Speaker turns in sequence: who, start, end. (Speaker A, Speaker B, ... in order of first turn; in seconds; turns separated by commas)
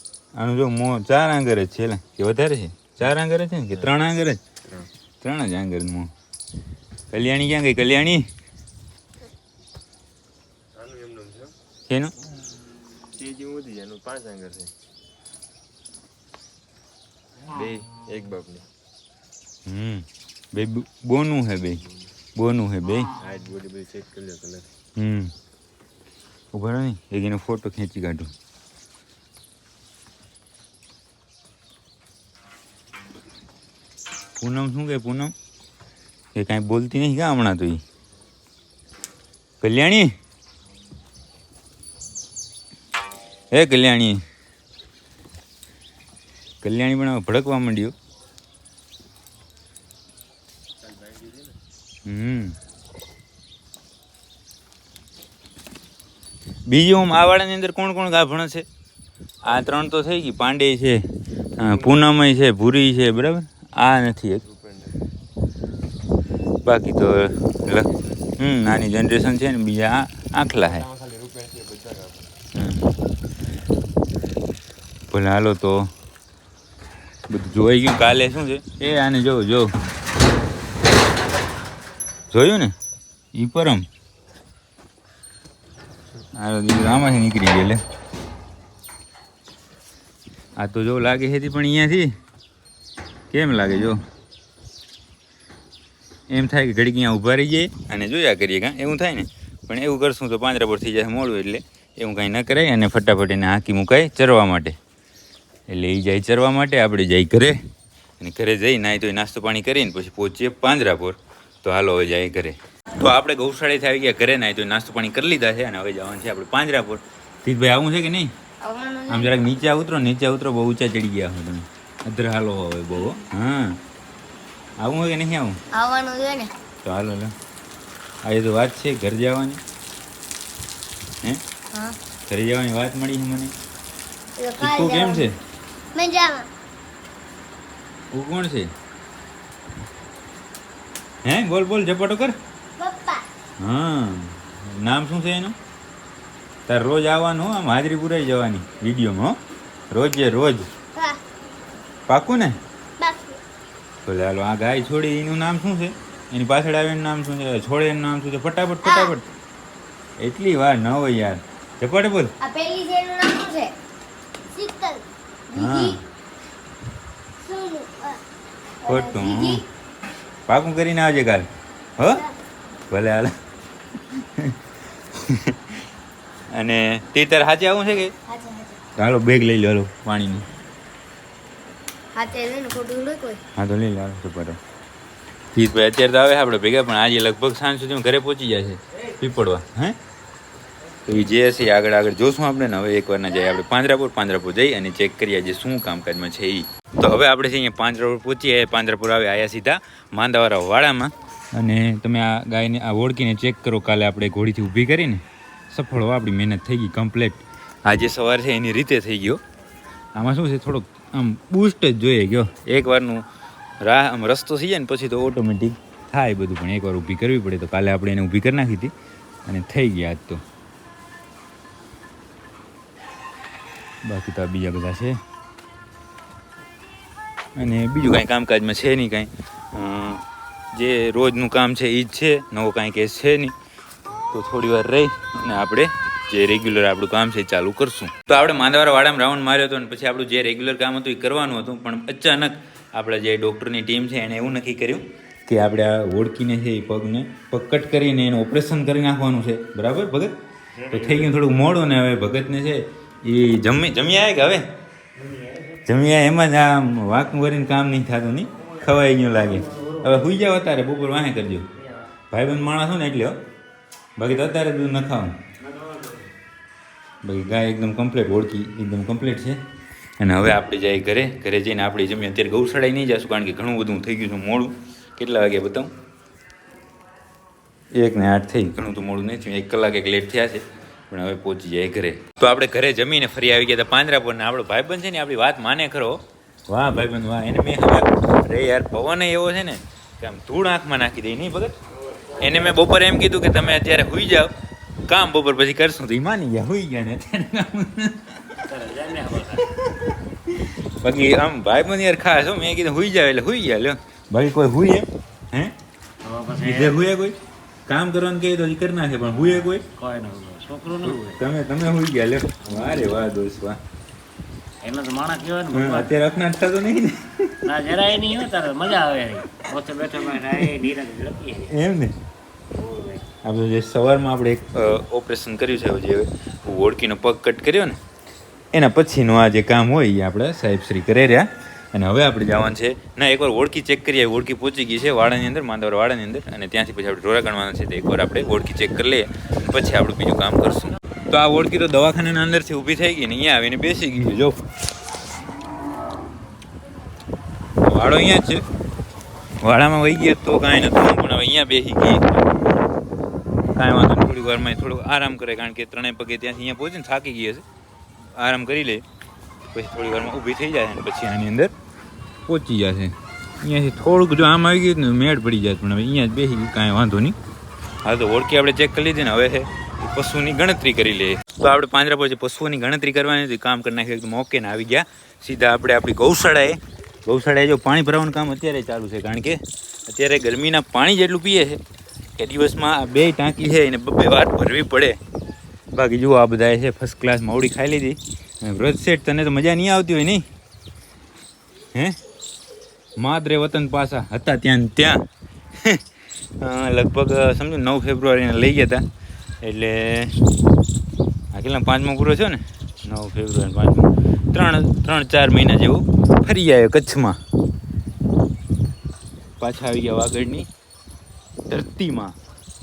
Speaker A: 0.3-4.4, Speaker A: 5.2-6.1, Speaker A: 7.1-8.2, Speaker B: 10.8-11.5, Speaker A: 11.9-12.1, Speaker B: 13.0-14.7, Speaker B: 17.5-18.6, Speaker A: 19.6-21.8, Speaker A: 22.4-23.1, Speaker B: 23.1-24.7, Speaker A: 24.9-25.3, Speaker A: 26.5-28.3, Speaker A: 34.4-35.3, Speaker A: 36.3-37.8, Speaker A: 39.6-40.1, Speaker A: 43.5-44.2, Speaker A: 46.6-47.9, Speaker B: 50.8-51.5, Speaker A: 52.0-52.5, Speaker A: 56.7-58.6, Speaker A: 59.4-61.0, Speaker A: 61.6-64.4, Speaker B: 61.6-62.0, Speaker B: 64.4-65.0, Speaker A: 66.6-70.8, Speaker B: 70.6-72.3, Speaker A: 72.5-72.9, Speaker A: 75.1-75.9, Speaker A: 77.3-79.7, Speaker A: 82.3-82.7, Speaker A: 83.3-83.8, Speaker A: 86.3-87.8, Speaker A: 90.6-92.1, Speaker A: 93.3-94.0, Speaker A: 96.3-104.8, Speaker A: 105.7-107.5, Speaker A: 108.2-118.3, Speaker C: 118.6-119.3, Speaker A: 119.1-123.8, Speaker A: 124.8-125.6, Speaker C: 125.7-126.5, Speaker A: 126.8-127.3, Speaker A: 128.2-129.6, Speaker A: 132.3-133.5, Speaker C: 134.4-135.2, Speaker A: 134.6-135.3, Speaker C: 135.9-136.5, Speaker A: 138.1-138.7, Speaker A: 141.2-142.3, Speaker C: 142.8-143.2, Speaker A: 143.6-145.5, Speaker A: 146.7-149.4, Speaker A: 149.9-150.7, Speaker A: 152.1-152.6, Speaker C: 153.0-153.4, Speaker A: 154.0-159.3, Speaker C: 158.8-159.1, Speaker A: 160.2-162.3, Speaker C: 162.4-163.7, Speaker C: 164.5-166.0, Speaker A: 165.5-166.0, Speaker C: 167.4-168.2, Speaker C: 168.8-169.6, Speaker A: 168.8-169.6, Speaker A: 170.5-171.5, Speaker A: 172.0-172.2, Speaker A: 172.9-173.3, Speaker A: 174.1-174.6, Speaker A: 175.1-175.8, Speaker A: 176.5-178.1, Speaker C: 178.3-178.8, Speaker A: 179.0-180.4, Speaker C: 182.1-183.4, Speaker A: 183.6-184.6, Speaker A: 185.5-190.0, Speaker A: 191.1-209.4, Speaker A: 210.1-213.2, Speaker A: 213.8-218.9, Speaker A: 219.4-220.4, Speaker A: 224.0-225.1, Speaker A: 227.6-233.5, Speaker A: 234.3-250.3, Speaker D: 250.8-251.2, Speaker A: 250.9-254.6, Speaker D: 255.2-255.8, Speaker A: 255.8-261.7, Speaker D: 259.6-260.0, Speaker A: 262.3-263.4, Speaker A: 264.2-265.4, Speaker D: 265.8-266.1, Speaker A: 267.2-269.6, Speaker A: 270.2-275.9, Speaker A: 277.9-291.8, Speaker A: 292.3-294.5, Speaker A: 295.1-298.6, Speaker D: 298.6-299.6, Speaker A: 299.7-305.7, Speaker D: 306.2-307.0, Speaker A: 306.6-309.8, Speaker D: 309.9-311.4, Speaker A: 311.0-313.8, Speaker D: 314.8-316.1, Speaker A: 315.7-317.6, Speaker D: 317.6-321.7, Speaker A: 320.4-320.8, Speaker A: 321.7-322.1, Speaker D: 322.7-323.2, Speaker A: 323.4-328.0, Speaker A: 328.7-344.6, Speaker A: 347.8-348.6, Speaker A: 349.6-352.2, Speaker A: 353.7-357.6, Speaker A: 358.3-359.0, Speaker A: 359.7-361.7, Speaker A: 362.4-367.4, Speaker A: 368.0-381.8, Speaker A: 382.4-385.2, Speaker A: 385.9-390.4, Speaker A: 393.2-395.2, Speaker A: 396.6-399.0, Speaker A: 399.6-400.3, Speaker A: 401.5-407.4, Speaker A: 409.6-410.7, Speaker A: 411.7-412.3